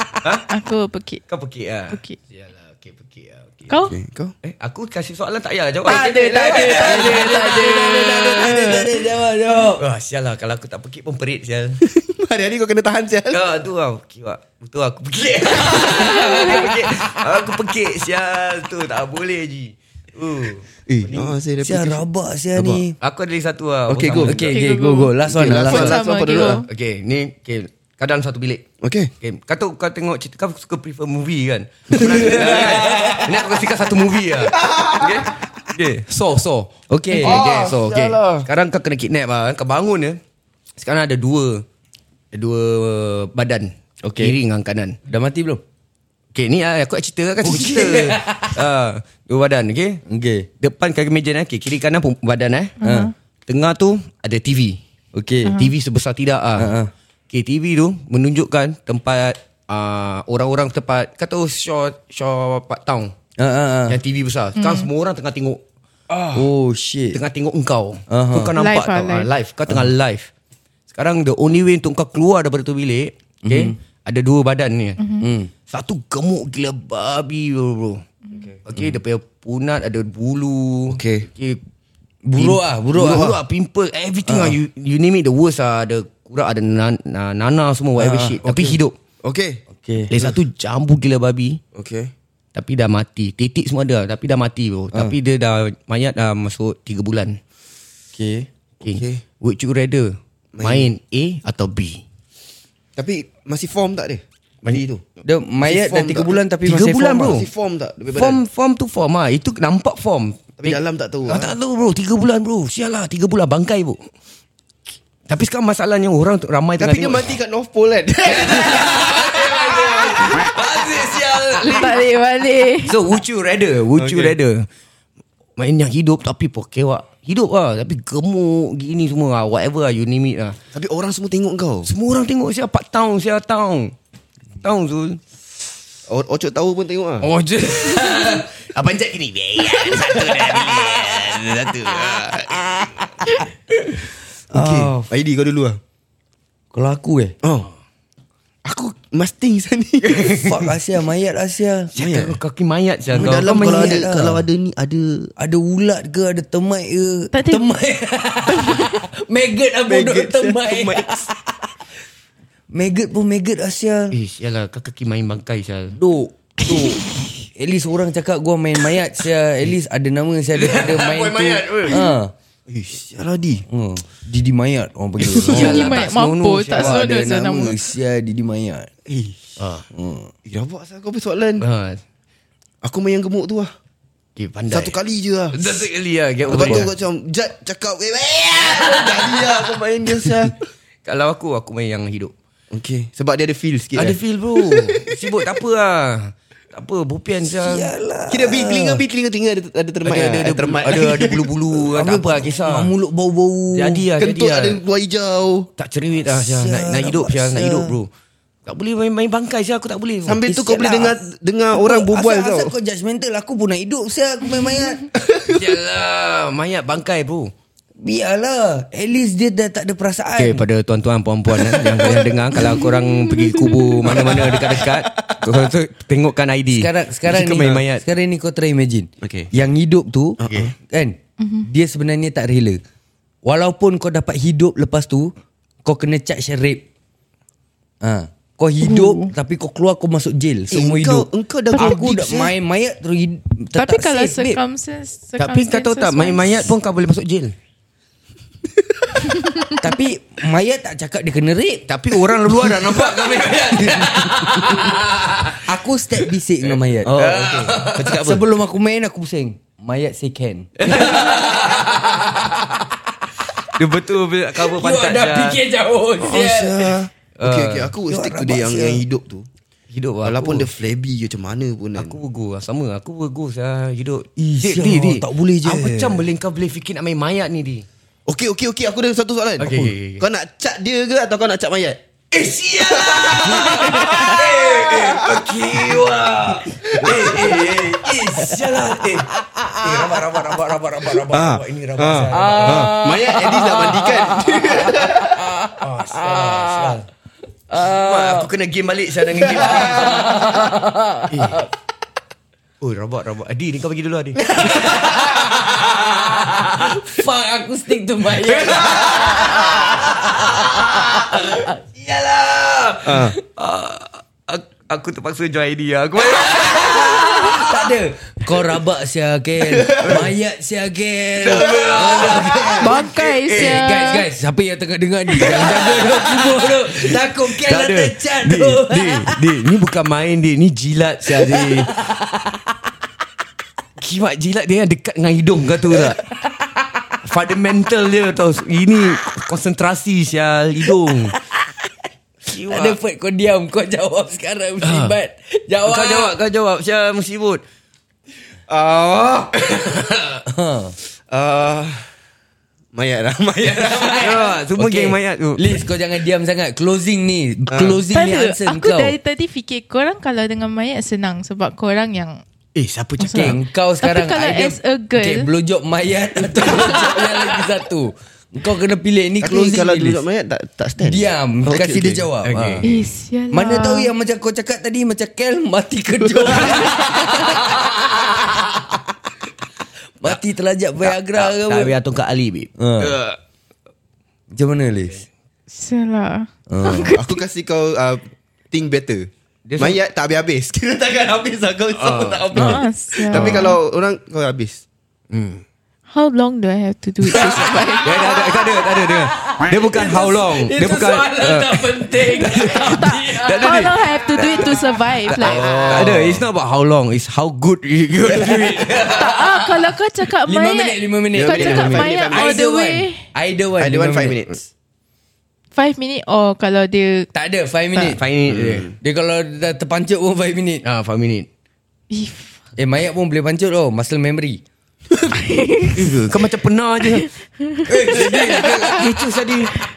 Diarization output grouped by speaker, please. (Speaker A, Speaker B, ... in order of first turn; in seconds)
Speaker A: 0.5-1.2, 3.7-4.0, 5.8-8.8, 24.5-26.7, 52.8-53.1, 55.4-55.7, 64.6-64.9, 68.5-69.3, 75.0-75.3, 121.7-123.0, 157.3-157.7, 158.5-159.0, 175.4-177.8, 231.4-231.7, 238.8-239.3, 243.8-246.7, 322.8-324.2, 358.1-362.4, 363.2-365.5, 366.6-367.2, 372.8-374.1, 385.7-387.4, 392.5-393.8, 396.1-398.3, 402.8-405.9, 409.1-413.2, 415.7-417.3, 422.1-422.6, 425.2-426.1, 427.1-428.6
Speaker B: 1.3-3.7, 4.4-8.8, 9.8-11.8, 13.3-21.3, 23.0-24.6, 26.7-28.6, 29.2-40.2, 40.8-41.6, 42.3-45.0, 46.3-50.0, 50.6-52.8, 53.5-54.8, 55.5-56.7, 57.3-63.1, 63.9-66.5, 67.1-70.3, 70.9-75.0, 75.7-78.0, 78.6-81.6, 82.3-88.9, 90.1-91.6, 92.5-97.4, 98.8-102.0, 106.6-107.5, 108.1-114.0, 115.3-117.3, 118.5-121.9, 122.8-124.6, 125.6-130.6, 131.8-133.9, 134.6-135.2, 137.2-143.0, 150.0-150.7, 151.9-154.0, 164.1-165.9, 170.5-172.1, 175.2-177.0, 179.6-179.8, 181.6-182.0, 184.3-184.9, 185.5-186.9, 191.0-192.3, 193.9-197.9, 200.0-202.9, 203.7-204.8, 205.8-208.1, 208.7-210.4, 215.5-217.5, 220.4-228.0, 245.4-247.5, 251.9-255.6, 256.6-257.9, 260.8-262.0, 263.7-265.6, 267.4-267.9, 269.9-270.7, 271.9-277.9, 279.6-280.2, 282.3-293.0, 295.8-297.0, 297.8-300.3, 302.8-306.9, 308.4-310.0, 312.1-317.8, 320.0-320.3, 321.4-324.0, 325.4-327.1, 327.7-331.9, 334.0-336.2, 337.2-341.3, 342.5-343.0, 344.8-345.1, 345.8-347.6, 349.6-350.4, 354.1-355.8, 362.9-363.5, 372.4-373.0, 381.0-383.4, 389.7-390.0, 391.9-392.4, 393.3-393.8, 395.3-395.6, 398.0-409.1, 417.9-418.9, 420.8-421.5, 425.9-427.3, 428.2-429.7
Speaker C: 3.9-4.3, 6.0-6.9, 11.9-13.4, 20.9-22.0, 22.5-22.8, 23.9-24.4, 25.2-26.6, 28.8-29.1, 31.9-33.3, 34.5-35.3, 37.2-38.5, 80.9-81.3, 83.0-83.4, 88.4-89.6, 91.7-92.1, 98.8-99.2, 100.5-100.9, 103.0-105.0, 105.6-106.4, 107.3-108.4, 110.6-111.5, 116.8-120.2, 124.0-124.3, 130.7-131.9, 136.1-137.3, 140.5-141.3, 141.9-142.2, 144.5-145.8, 147.4-147.7, 148.6-150.4, 151.9-152.3, 153.1-155.3, 159.9-161.3, 172.7-173.6, 179.1-179.5, 180.4-181.7, 182.8-183.7, 184.7-185.7, 186.4-190.5, 192.7-195.4, 198.3-201.5, 204.2-205.7, 210.2-212.7, 215.1-215.8, 221.6-222.9, 224.0-225.3, 229.2-229.5, 230.4-230.7, 240.7-242.5, 257.1-258.4, 266.2-269.5, 270.2-272.2, 278.3-282.0, 282.9-285.6, 286.7-287.6, 291.3-295.4, 299.6-300.1, 304.5-304.9, 313.1-313.4, 319.6-320.2, 321.7-322.9, 348.7-349.6, 351.3-352.1, 352.9-354.6, 357.7-358.0, 362.8-363.3, 369.4-372.3, 376.2-377.0, 387.1-394.8, 405.4-406.4, 411.3-412.6, 413.8-414.6, 418.5-418.9
Speaker D: 5.9-9.8, 15.9-16.8, 21.6-22.9, 24.2-26.0, 36.9-37.4, 44.0-44.3, 45.1-45.6, 47.4-48.5, 50.1-50.5, 52.8-53.1, 55.1-55.6, 56.6-56.9, 63.4-64.0, 66.3-67.2, 68.1-68.5, 73.4-73.7, 75.2-75.5, 82.2-83.3, 84.2-84.5, 88.0-88.4, 89.7-90.1, 98.2-98.5, 105.2-107.4, 118.3-121.9, 144.5-145.1, 146.7-147.3, 150.3-151.9, 153.2-154.4, 155.4-161.3, 162.7-164.1, 165.9-172.3, 173.7-176.1, 176.7-178.9, 179.9-180.3, 186.5-186.8, 197.5-199.0, 201.9-204.1, 206.4-207.9, 210.5-211.2, 211.7-215.1, 218.0-220.6, 226.7-232.8, 233.4-235.3, 235.8-236.8, 238.0-244.6, 249.8-251.9, 252.6-255.0, 255.6-262.5, 264.7-267.0, 268.1-269.0, 274.4-276.2, 283.6-284.2, 288.0-288.6, 289.6-289.9, 292.3-297.0, 297.7-298.5, 299.5-301.7, 304.6-313.1, 316.3-329.4, 331.2-332.5, 340.9-341.9, 342.6-346.3, 350.5-350.9, 353.8-359.1, 363.3-370.2, 371.0-372.9, 373.5-377.8, 380.2-381.9, 382.8-383.2, 384.5-385.2, 386.7-387.2, 392.5-392.8, 398.2-404.9, 405.6-406.4, 408.2-414.5, 417.3-418.2, 419.0-420.8, 422.8-424.6, 427.9-429.0